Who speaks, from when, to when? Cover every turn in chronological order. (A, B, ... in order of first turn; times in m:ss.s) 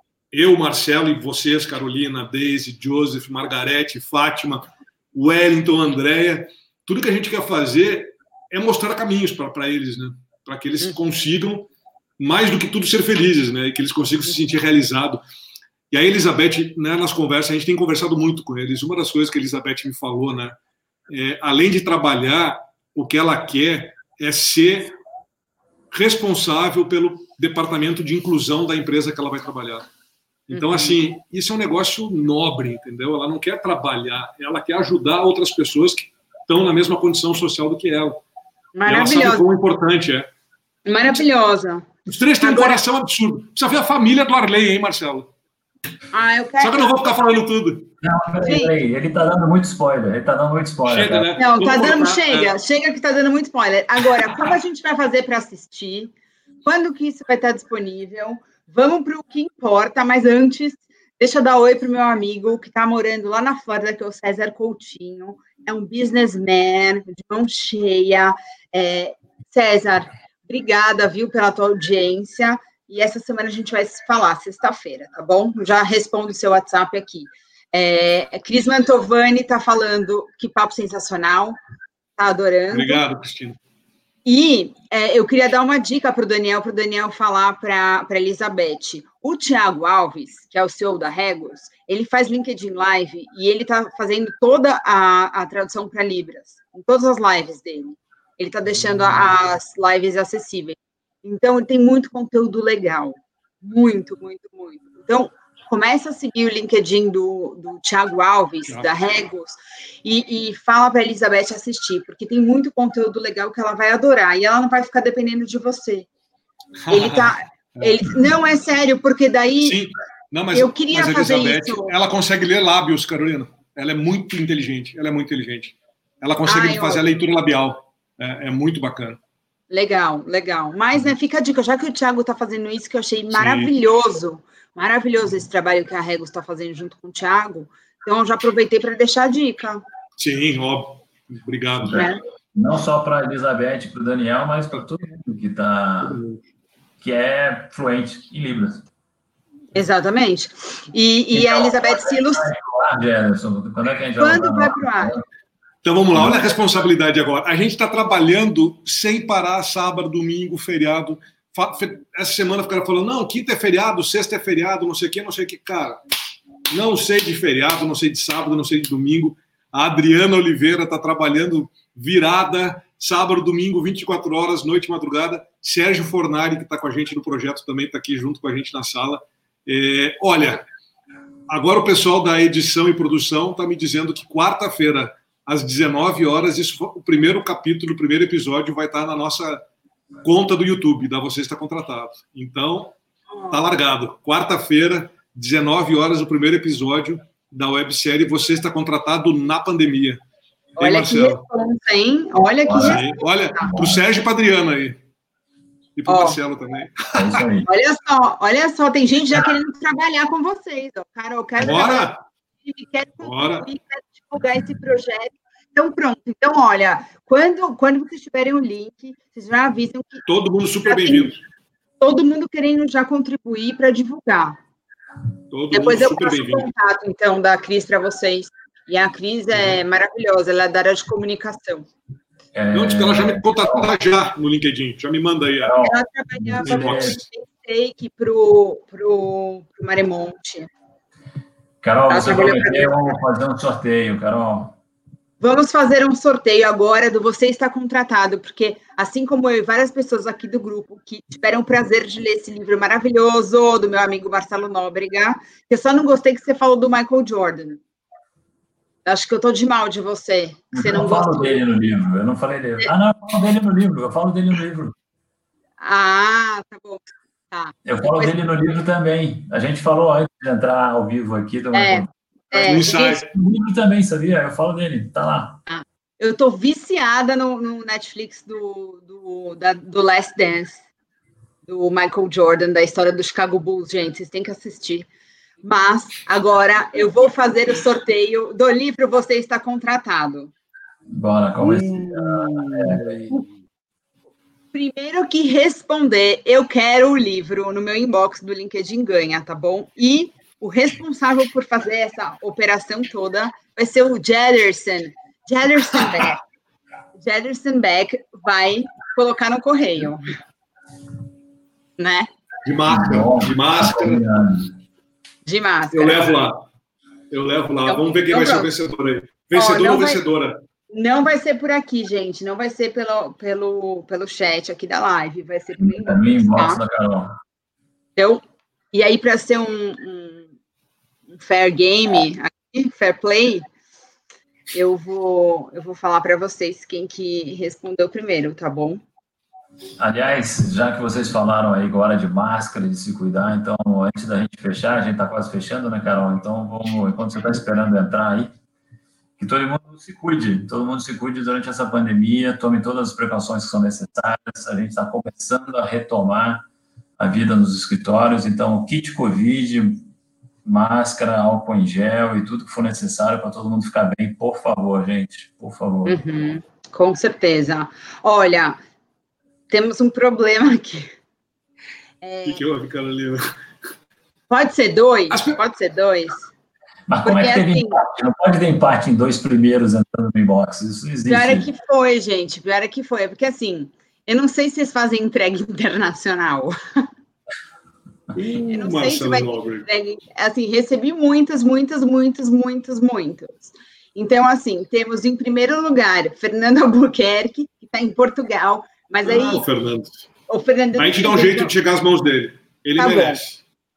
0:00.3-0:15.2 A
0:15.9-0:20.6 A
0:21.1-0:25.0 A
0:25.9-0:29.9 A
0:30.5-0:38.2 A
0:30.5-0:31.0 B
0:38.8-0:39.5 B
0:38.9-0:40.3 A
0:40.9-0:42.8 B
0:42.1-0:45.3 A
0:46.1-0:47.0 B
0:46.6-0:47.9 A
0:48.0-0:51.3 C
0:48.4-0:48.7 B
0:50.8-0:52.5 A
0:51.4-0:56.1 B
0:56.6-1:21.6 B
1:22.2-1:23.0 B
1:22.7-1:23.6 A
1:24.2-1:56.1 B
1:56.8-1:58.2 A
1:56.9-1:59.8 B
1:59.6-2:09.2 A
2:00.5-2:02.0 B
2:06.4-2:07.0 B
2:09.7-2:19.8 B
2:13.3-2:13.7 A
2:20.2-2:22.1 A
2:21.8-2:26.2 C
2:21.9-2:22.2 B
2:26.0-2:26.4 A
2:27.0-2:28.8 C
2:29.7-2:32.5 B
2:31.4-2:35.2 C
2:34.2-2:35.2 B
2:35.8-2:46.0 A
2:36.2-2:36.4 C
2:46.7-3:00.6 A
3:01.5-3:09.6 A
3:10.2-3:13.0 A
3:13.5-3:20.2 A
3:20.8-3:23.7 B
3:20.8-3:21.4 A
3:22.6-3:23.0 C
3:22.8-3:25.0 A
3:23.6-3:24.0 C
3:26.0-3:27.4 A
3:26.1-3:26.4 B
3:27.1-3:27.7 C
3:27.7-3:32.1 B
3:31.6-3:32.2 A
3:32.6-3:40.2 B
3:33.2-3:33.6 A
3:40.3-3:41.4 A
3:40.8-3:41.3 B
3:42.0-3:44.6 B
3:45.5-3:46.7 A
3:45.7-3:51.9 B
3:52.5-3:53.9 C
3:52.7-3:55.8 A
3:55.6-3:57.2 C
3:55.8-4:00.7 B
3:56.6-3:57.2 A
4:01.8-4:04.8 C
4:02.1-4:03.1 B
4:05.4-4:17.8 B
4:19.0-4:21.6 B
4:20.7-4:25.0 C
4:25.8-4:28.3 B
4:27.8-4:35.6 C
4:31.7-4:33.2 B
4:32.6-4:33.3 A
4:35.7-4:40.8 B
4:41.6-4:45.1 B
4:45.6-4:50.5 B
4:51.1-4:53.3 C
4:51.6-4:53.3 A
4:54.7-5:06.4 B
5:07.2-5:10.2 B
5:12.0-5:12.3 B
5:12.6-5:14.2 A
5:12.9-5:14.7 C
5:15.4-5:16.3 B
5:15.9-5:16.6 A
5:17.3-5:20.6 A
5:17.9-5:18.7 B
5:19.5-5:20.2 B
5:20.9-5:26.8 B
5:25.8-5:27.4 C
5:28.2-5:30.5 B
5:31.4-5:33.7 B
5:34.7-5:39.0 B
5:40.0-5:48.5 C
5:49.4-5:56.6 C
5:57.2-6:00.1 C
6:00.6-6:06.2 C
6:06.1-6:08.8 B
6:09.7-6:11.2 B
6:12.2-6:12.6 B
6:12.4-6:13.5 A
6:14.5-6:16.5 B
6:15.3-6:15.6 A
6:17.1-6:21.7 C
6:17.2-6:18.0 B
6:21.3-6:26.8 B
6:28.4-6:29.9 A
6:28.7-6:39.6 B
6:39.2-6:40.3 A
6:40.5-6:41.7 B
6:41.0-6:43.6 A
6:43.0-6:43.4 B